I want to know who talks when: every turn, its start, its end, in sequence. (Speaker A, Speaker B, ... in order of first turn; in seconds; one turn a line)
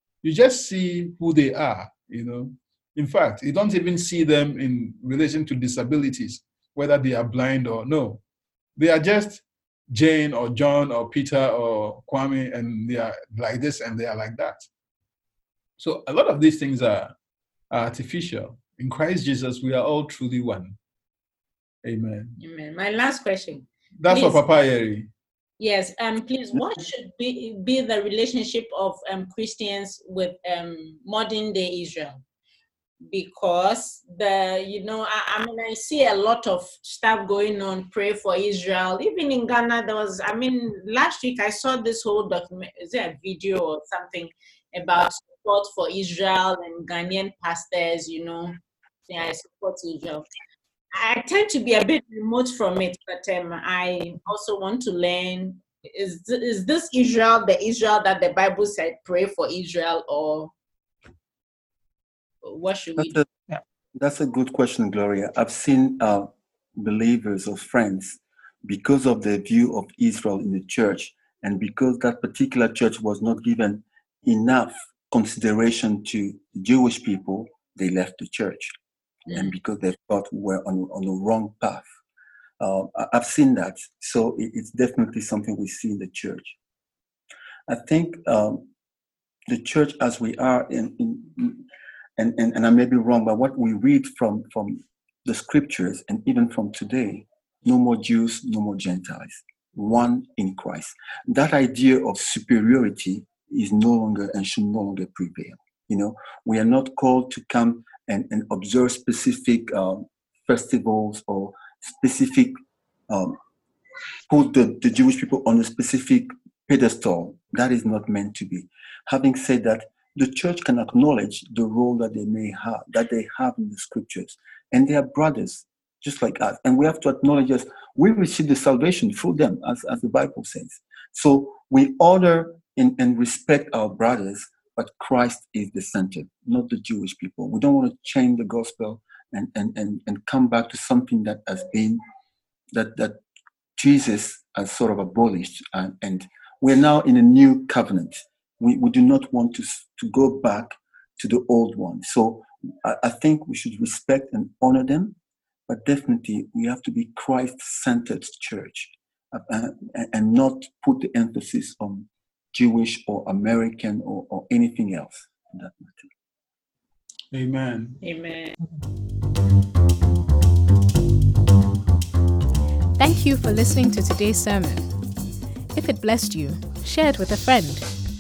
Speaker A: 0.2-8.2
Speaker A: 8.8-14.6
Speaker A: 15.8-17.1
Speaker A: 17.7-20.8
Speaker A: 21.8-22.4
Speaker B: 22.4-24.4
Speaker A: 24.0-25.1
Speaker B: 25.6-32.2
Speaker B: 33.1-48.6
Speaker B: 49.1-50.3
Speaker B: 51.0-60.5
Speaker B: 62.4-63.2
Speaker C: 63.0-63.2
Speaker C: 64.0-78.7
Speaker C: 79.3-81.9
Speaker C: 82.6-86.6
Speaker C: 87.7-88.7
Speaker C: 89.5-91.6
Speaker C: 92.2-112.5
Speaker C: 113.1-113.4
Speaker C: 114.3-142.0
Speaker C: 142.7-143.2
Speaker C: 143.8-155.2
Speaker C: 155.7-166.1
Speaker A: 167.3-168.0
Speaker B: 168.0-168.6
Speaker D: 173.0-174.9
Speaker D: 175.7-177.9